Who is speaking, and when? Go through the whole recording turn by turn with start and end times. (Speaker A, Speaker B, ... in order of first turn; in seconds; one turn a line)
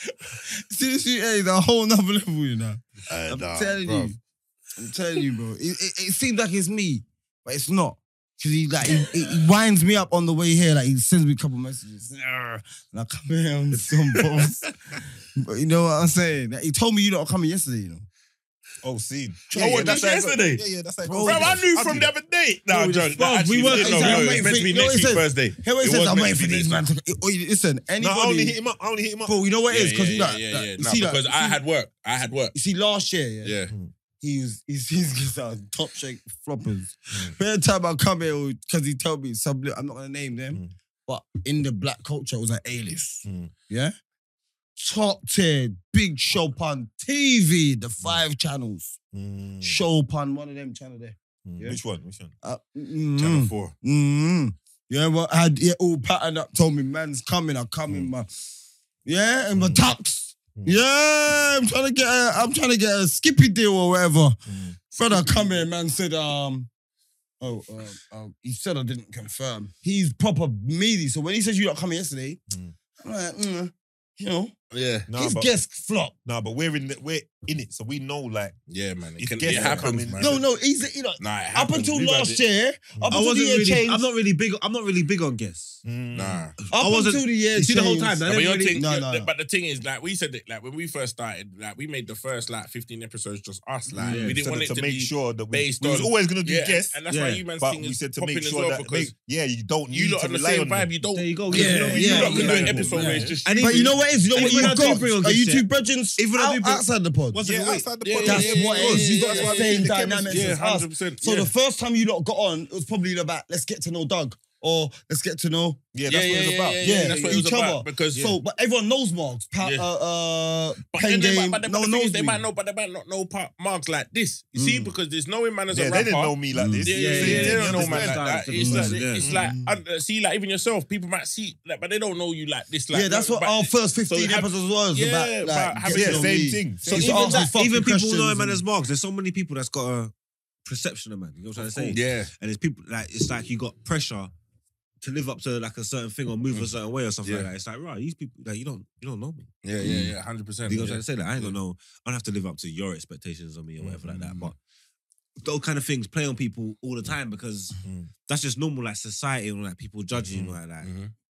Speaker A: 0.2-4.2
Speaker B: 3.1-4.1
Speaker A: 4.8-14.6
Speaker A: 15.3-18.1
Speaker C: 18.8-22.1
Speaker B: 19.5-20.6
Speaker A: 19.6-20.0
Speaker A: 21.0-21.6
Speaker B: 21.2-26.8
Speaker D: 22.7-24.4
Speaker A: 23.7-28.6
Speaker C: 28.0-29.3
Speaker A: 29.2-31.6
Speaker B: 29.7-32.5
Speaker A: 32.5-33.5
Speaker B: 33.4-33.7
Speaker A: 34.2-43.9
Speaker C: 43.2-43.5
Speaker A: 44.8-49.0
Speaker C: 49.1-49.8
Speaker A: 49.6-51.8
Speaker C: 51.5-52.3
Speaker A: 52.4-58.3
Speaker C: 53.2-53.7
Speaker A: 59.0-64.3
Speaker C: 59.5-59.8
Speaker C: 64.5-65.5
Speaker A: 64.9-66.7
Speaker A: 67.4-72.4
Speaker A: 73.0-74.5
Speaker B: 74.7-75.1
Speaker C: 75.1-75.5
Speaker A: 75.1-76.1
Speaker C: 76.2-78.5
Speaker B: 78.7-80.4
Speaker C: 79.2-80.4
Speaker D: 79.5-79.8
Speaker A: 80.2-84.0
Speaker B: 81.2-82.4
Speaker D: 83.1-85.8
Speaker C: 85.8-86.4
Speaker B: 86.1-86.5
Speaker D: 86.7-88.8
Speaker A: 86.7-89.3
Speaker B: 88.2-99.1
Speaker C: 93.9-97.0
Speaker D: 94.0-94.4
Speaker D: 97.1-97.4
Speaker C: 97.6-100.9
Speaker B: 99.9-104.7
Speaker D: 101.1-105.7
Speaker A: 101.5-107.4
Speaker C: 101.5-103.3
Speaker D: 106.2-107.9
Speaker C: 107.4-110.6
Speaker B: 108.0-111.5
Speaker A: 108.2-115.8
Speaker C: 115.9-117.4
Speaker B: 116.1-118.4
Speaker A: 116.8-122.4
Speaker B: 120.9-136.6
Speaker C: 125.7-128.3
Speaker A: 126.5-127.5
Speaker D: 126.9-129.3
Speaker A: 128.5-129.8
Speaker C: 129.2-129.5
Speaker A: 132.9-138.6
Speaker C: 135.8-137.4
Speaker D: 136.9-140.1
Speaker D: 140.6-144.3
Speaker B: 141.7-142.3
Speaker D: 145.0-150.0
Speaker B: 149.6-151.5
Speaker D: 150.7-154.6
Speaker B: 153.9-154.5
Speaker D: 155.4-160.9
Speaker C: 157.8-158.1
Speaker B: 160.4-161.1